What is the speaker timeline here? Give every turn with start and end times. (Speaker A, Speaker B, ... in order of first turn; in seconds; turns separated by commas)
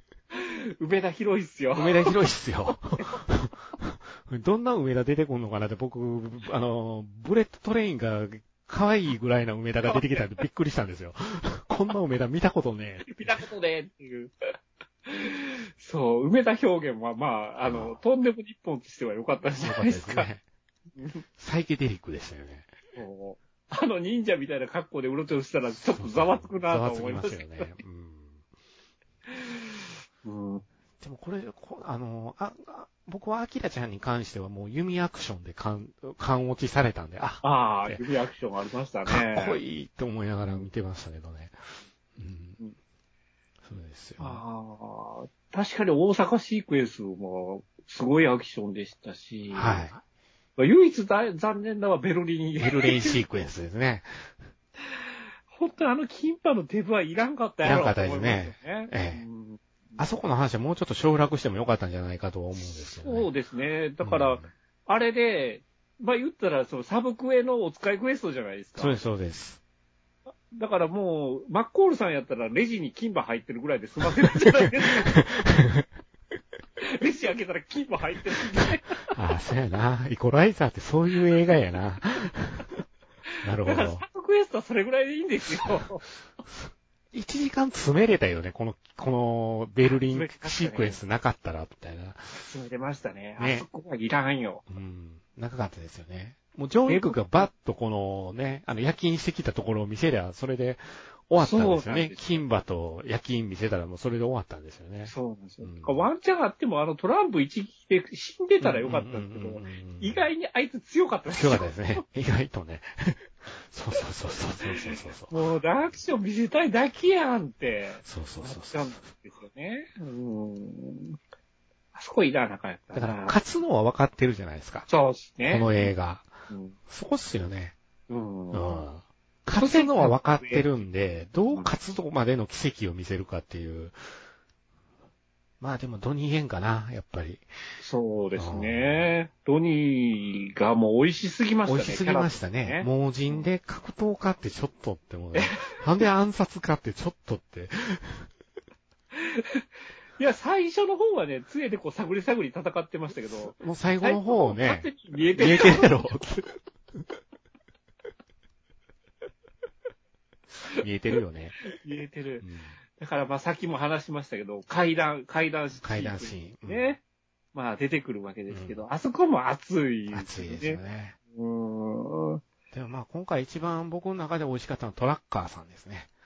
Speaker A: 0.3-2.1, Speaker B: 1.8-13.4, Speaker A: 9.9-10.2, Speaker A: 13.1-14.3, Speaker A: 15.1-20.3, Speaker B: 17.6-18.0, Speaker B: 19.6-20.4, Speaker A: 21.0-21.2, Speaker B: 21.4-22.7, Speaker A: 23.0-27.7, Speaker B: 25.8-28.4, Speaker A: 29.3-29.6, Speaker A: 30.2-30.6, Speaker B: 31.0-38.0, Speaker A: 37.4-39.6, Speaker B: 39.1-41.6, Speaker B: 42.2-42.6, Speaker B: 43.6-44.4, Speaker A: 44.2-49.9, Speaker B: 49.5-50.0, Speaker A: 50.6-53.2, Speaker B: 52.6-54.3, Speaker A: 55.5-60.0, Speaker B: 57.6-59.2, Speaker B: 60.0-63.3, Speaker A: 62.7-69.0, Speaker B: 64.0-64.5, Speaker B: 68.8-69.6, Speaker A: 70.5-75.2, Speaker B: 75.1-75.9, Speaker A: 76.8-79.0, Speaker B: 79.1-82.7, Speaker B: 83.4-84.0, Speaker A: 83.6-86.0, Speaker B: 87.1-92.4, Speaker A: 89.9-91.0, Speaker A: 92.3-94.6, Speaker B: 93.4-93.7, Speaker B: 94.7-106.0, Speaker A: 96.9-97.5, Speaker A: 101.4-102.4, Speaker A: 105.1-112.0, Speaker B: 108.6-110.2, Speaker B: 111.3-115.3, Speaker A: 114.7-121.2, Speaker B: 118.0-119.0, Speaker A: 122.0-123.4, Speaker B: 122.9-124.9, Speaker A: 124.9-125.9, Speaker B: 125.5-126.3, Speaker A: 126.5-126.8, Speaker B: 126.9-127.8, Speaker A: 128.1-128.8, Speaker B: 128.5-134.0, Speaker A: 129.6-130.7, Speaker B: 135.6-137.5, Speaker A: 137.8-143.5, Speaker B: 138.4-139.1, Speaker B: 141.7-148.3, Speaker A: 145.3-145.8, Speaker A: 149.1-149.6, Speaker A: 150.2-155.9, Speaker B: 153.5-157.0, Speaker B: 160.8-161.6, Speaker A: 161.7-167.0, Speaker B: 162.4-162.8, Speaker B: 165.8-166.9, Speaker A: 167.5-170.8, Speaker B: 168.5-168.8, Speaker B: 170.1-171.2, Speaker A: 171.3-172.4, Speaker B: 172.7-176.1